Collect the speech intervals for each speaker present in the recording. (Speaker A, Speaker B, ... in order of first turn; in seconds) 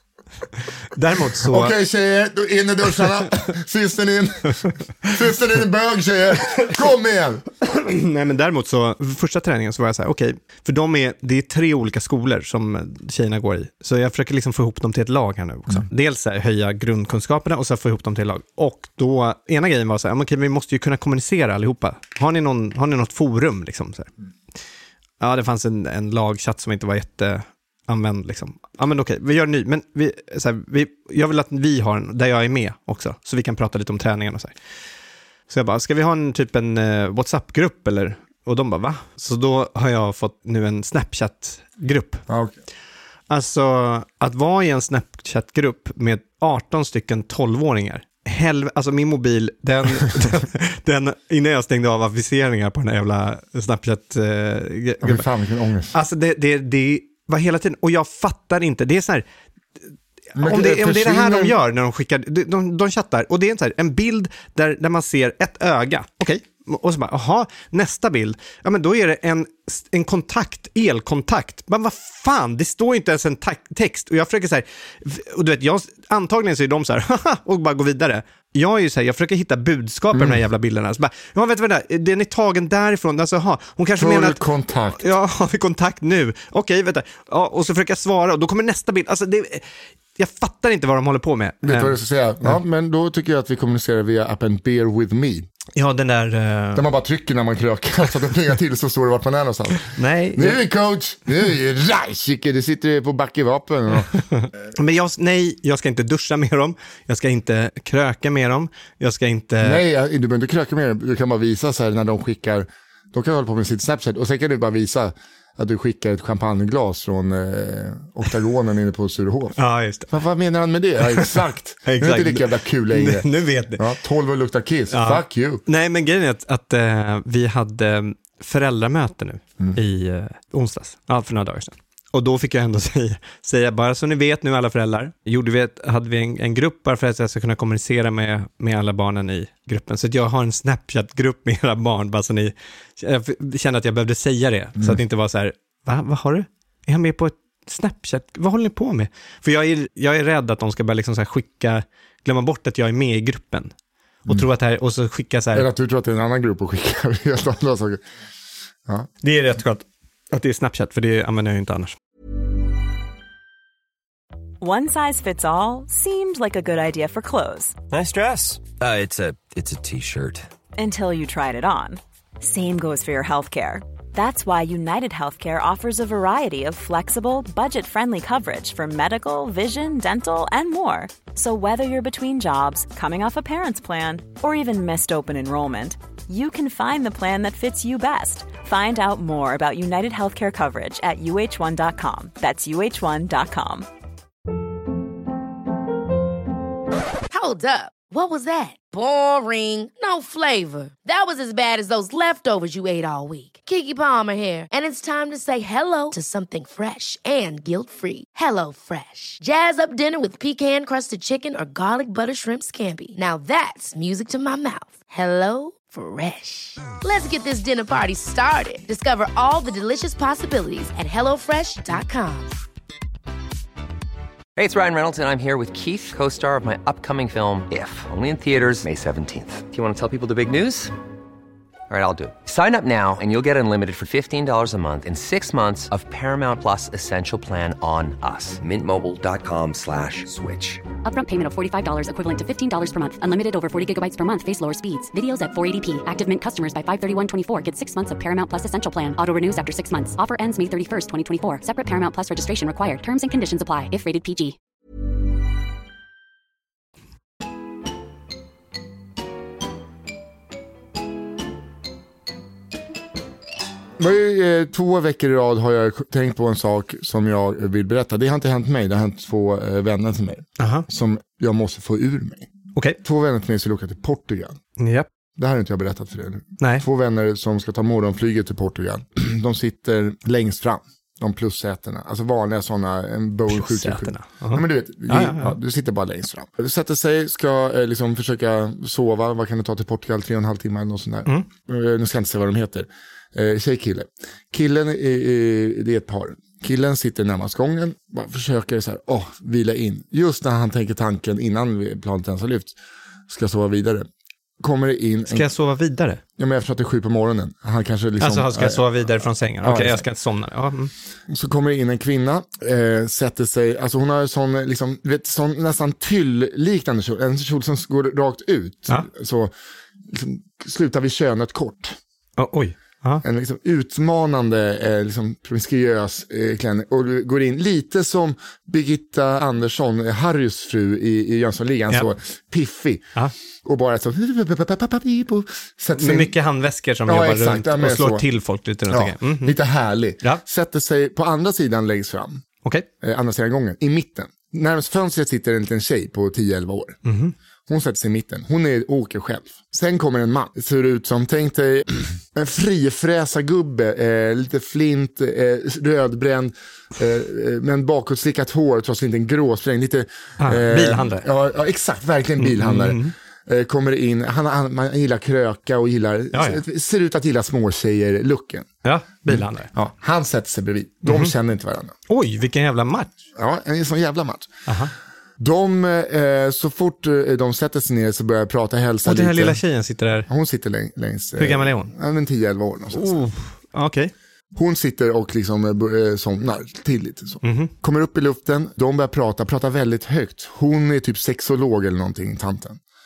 Speaker A: 0.9-1.7, 7.6-24.1, 25.2-34.5, 35.5-42.2, 43.3-55.2, 55.9-59.2, 60.3-84.4, 85.0-89.6, 90.2-92.6, 95.8-96.8, 99.9-100.6, 104.3-109.8, 119.6-120.1, 121.8-123.8, 124.9-153.7, 154.2-155.7, 159.2-161.9, 270.6-270.9, 274.8-275.1, 283.5-285.5, 305.3-306.2, 308.2-310.9, 322.4-323.2, 335.9-339.6, 347.1-347.3, 360.4-361.2, 362.4-363.1, 366.3-366.6, 368.8-369.7, 371.0-371.3, 372.1-373.1, 374.7-374.9, 379.0-380.3, 381.4-381.9, 382.9-384.1, 387.4-387.7
Speaker B: 1.4-7.4, 42.3-42.6, 55.0-56.0, 60.3-61.5, 80.1-80.4, 84.0-85.0, 91.6-95.5, 96.7-104.1, 109.6-119.6, 120.1-125.6, 155.5-158.0, 264.0-272.5, 273.0-274.6, 275.4-302.8, 303.3-304.1, 304.6-305.5, 306.4-309.0, 309.6-310.0, 311.3-319.5, 320.1-322.0, 323.2-333.1, 333.6-336.3, 337.1-338.2, 338.9-342.4, 343.0-347.0, 347.7-368.7, 369.3-371.9, 373.4-374.5, 375.4-379.6, 380.3-383.1, 384.5-392.8
Speaker C: 164.6-167.8, 170.8-193.9
Speaker D: 167.9-169.2, 169.7-170.4
Speaker E: 197.3-222.5
Speaker F: 224.6-230.9, 231.9-240.8
Speaker G: 241.0-254.6